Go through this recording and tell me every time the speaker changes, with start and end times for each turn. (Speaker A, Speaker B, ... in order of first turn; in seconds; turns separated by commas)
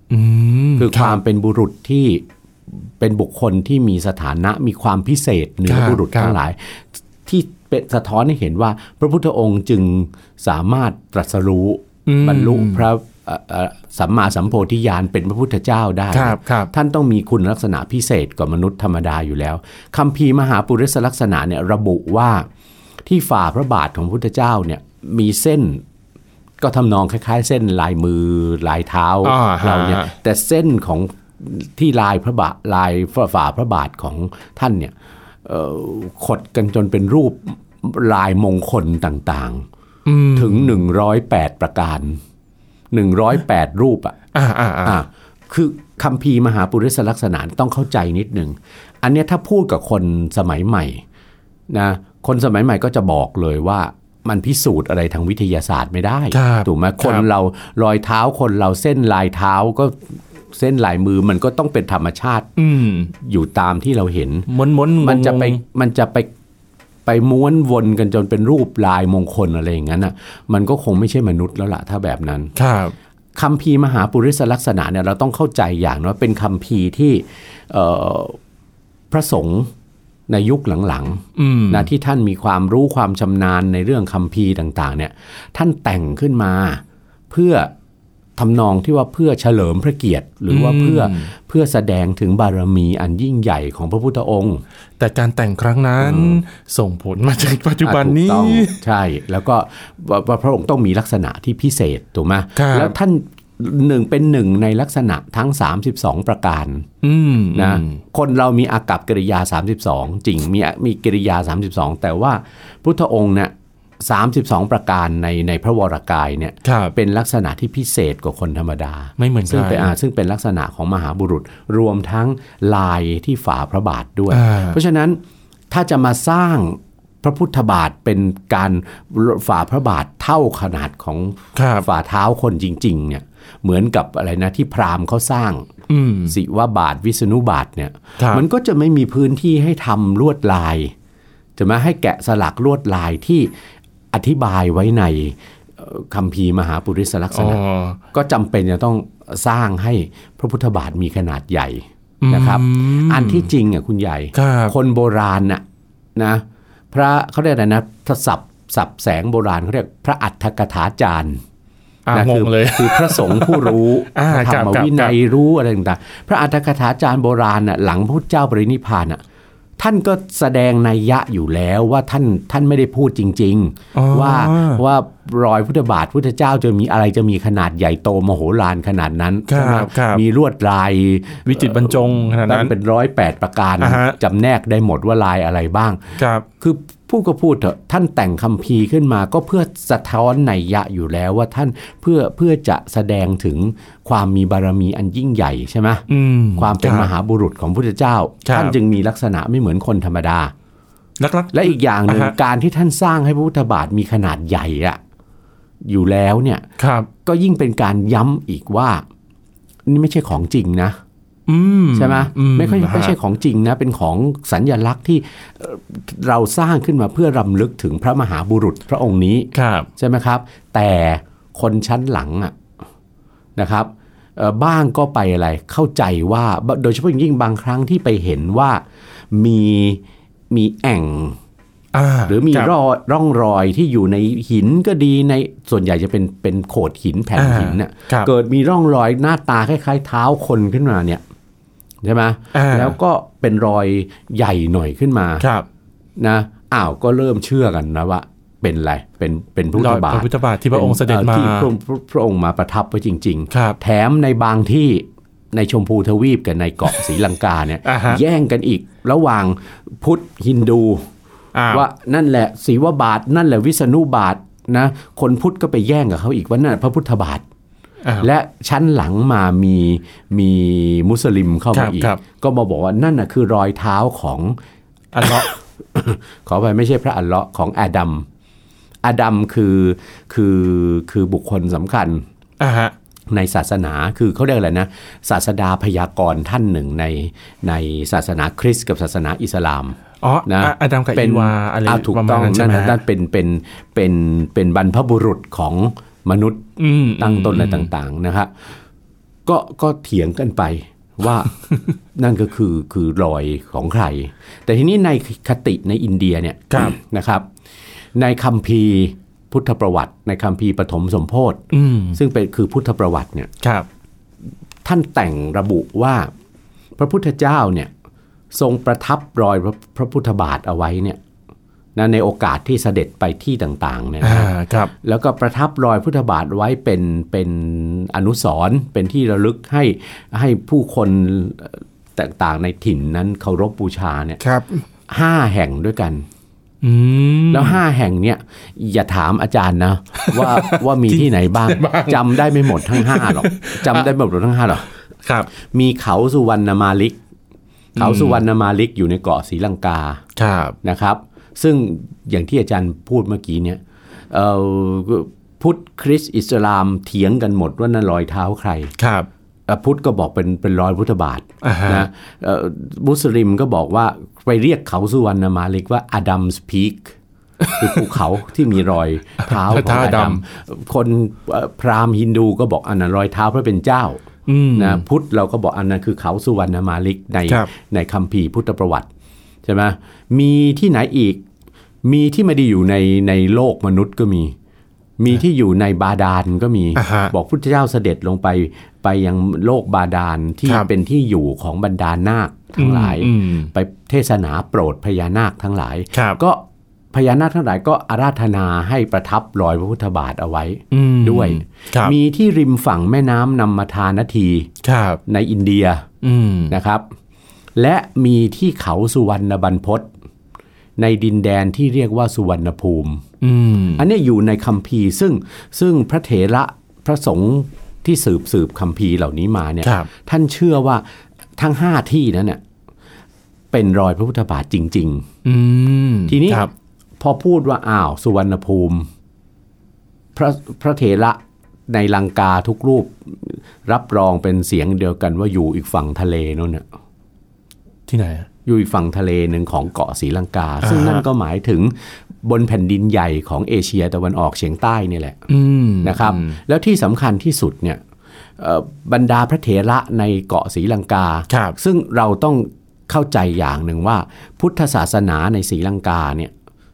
Speaker A: 0.1-1.2, Speaker B: 0.8-22.4, Speaker A: 5.7-6.4, Speaker A: 12.1-12.8, Speaker A: 16.1-16.7, Speaker B: 23.1-25.8, Speaker B: 26.6-39.6, Speaker A: 29.2-30.1, Speaker A: 40.0-40.7, Speaker B: 40.3-42.2, Speaker B: 42.9-44.1, Speaker A: 44.3-45.0, Speaker B: 44.8-51.0, Speaker B: 51.7-62.5, Speaker A: 56.3-57.2, Speaker A: 62.6-63.1, Speaker B: 63.1-64.5, Speaker A: 64.5-65.6, Speaker B: 65.0-66.3, Speaker B: 67.0-72.5, Speaker A: 72.5-72.9, Speaker B: 73.3-78.4, Speaker B: 79.1-79.7, Speaker B: 80.3-87.7, Speaker A: 81.3-81.9, Speaker B: 88.4-94.6, Speaker A: 90.5-91.3, Speaker A: 95.0-98.8, Speaker B: 96.0-96.4, Speaker B: 97.8-106.9, Speaker A: 102.5-102.9, Speaker A: 107.0-108.0, Speaker B: 107.5-125.2, Speaker A: 116.6-116.9, Speaker A: 119.2-119.9, Speaker A: 124.3-124.8, Speaker B: 125.7-135.7, Speaker A: 131.6-131.9, Speaker A: 135.9-136.3, Speaker B: 136.3-140.9, Speaker A: 138.2-138.4, Speaker B: 141.6-143.5, Speaker B: 144.1-147.6, Speaker A: 147.3-148.0, Speaker B: 148.1-155.6, Speaker A: 152.2-153.5, Speaker A: 154.3-154.7, Speaker B: 156.2-161.4, Speaker A: 162.1-165.2, Speaker B: 162.1-169.2, Speaker B: 169.8-200.5, Speaker A: 173.9-174.8, Speaker A: 179.5-180.2, Speaker A: 181.4-182.7, Speaker A: 183.8-184.2, Speaker A: 186.2-186.4, Speaker A: 196.1-197.1, Speaker A: 198.4-198.8, Speaker A: 201.2-202.3, Speaker B: 201.5-205.0, Speaker B: 205.8-206.7, Speaker A: 206.8-207.1, Speaker B: 207.2-209.0, Speaker B: 209.9-211.0, Speaker A: 211.5-213.2, Speaker B: 211.9-222.6, Speaker A: 219.5-219.9, Speaker B: 223.6-228.8, Speaker B: 229.3-231.4, Speaker A: 231.9-232.7, Speaker B: 232.3-241.2, Speaker A: 237.3-238.3, Speaker B: 242.0-245.4, Speaker A: 242.5-242.9, Speaker A: 245.4-245.7, Speaker B: 246.2-261.1, Speaker A: 249.7-251.7, Speaker A: 253.5-253.8, Speaker A: 257.8-258.2, Speaker A: 261.5-261.9, Speaker B: 261.7-267.4, Speaker B: 268.2-274.6, Speaker A: 271.7-272.2, Speaker A: 275.1-275.5, Speaker B: 275.2-278.2, Speaker B: 279.0-282.2, Speaker A: 282.6-282.9, Speaker B: 283.3-298.5, Speaker A: 290.2-293.0, Speaker A: 296.8-297.9, Speaker B: 299.4-301.6, Speaker B: 302.1-307.4, Speaker B: 308.1-311.6, Speaker A: 311.7-312.2, Speaker B: 312.1-313.5, Speaker A: 313.6-313.9, Speaker B: 314.8-316.3, Speaker B: 317.0-317.9, Speaker B: 318.5-321.2, Speaker B: 321.9-334.4, Speaker A: 324.2-324.9, Speaker A: 334.4-334.8, Speaker B: 335.1-336.2, Speaker A: 336.8-337.8, Speaker B: 337.5-344.9, Speaker A: 340.2-344.1, Speaker A: 345.2-345.5, Speaker B: 345.5-347.2, Speaker A: 347.9-348.4, Speaker B: 347.9-350.2, Speaker A: 350.4-350.8, Speaker B: 350.8-353.8, Speaker B: 354.3-358.9, Speaker A: 359.0-359.3, Speaker B: 359.7-367.1, Speaker A: 361.6-362.1, Speaker A: 367.6-368.1, Speaker B: 367.7-379.1, Speaker A: 369.4-370.4, Speaker A: 374.5-375.0, Speaker B: 379.6-381.4, Speaker B: 382.0-384.5, Speaker B: 385.2-404.7, Speaker A: 386.9-387.3, Speaker A: 392.8-393.7, Speaker A: 396.1-396.4, Speaker A: 400.9-402.1, Speaker A: 404.8-405.2, Speaker B: 405.3-406.1, Speaker A: 406.2-406.8, Speaker B: 406.7-407.1, Speaker B: 407.8-410.1, Speaker B: 411.0-413.2, Speaker A: 413.4-414.0, Speaker B: 413.9-421.0, Speaker A: 419.8-420.1, Speaker B: 421.6-422.6, Speaker B: 423.7-425.3, Speaker A: 425.4-426.7, Speaker B: 426.3-426.7, Speaker B: 427.2-429.1, Speaker B: 430.4-431.4, Speaker B: 431.9-436.8, Speaker A: 438.1-438.5, Speaker B: 438.6-445.4, Speaker A: 440.8-441.2, Speaker A: 445.5-446.6, Speaker B: 446.0-448.0, Speaker B: 448.6-456.5, Speaker A: 451.5-451.8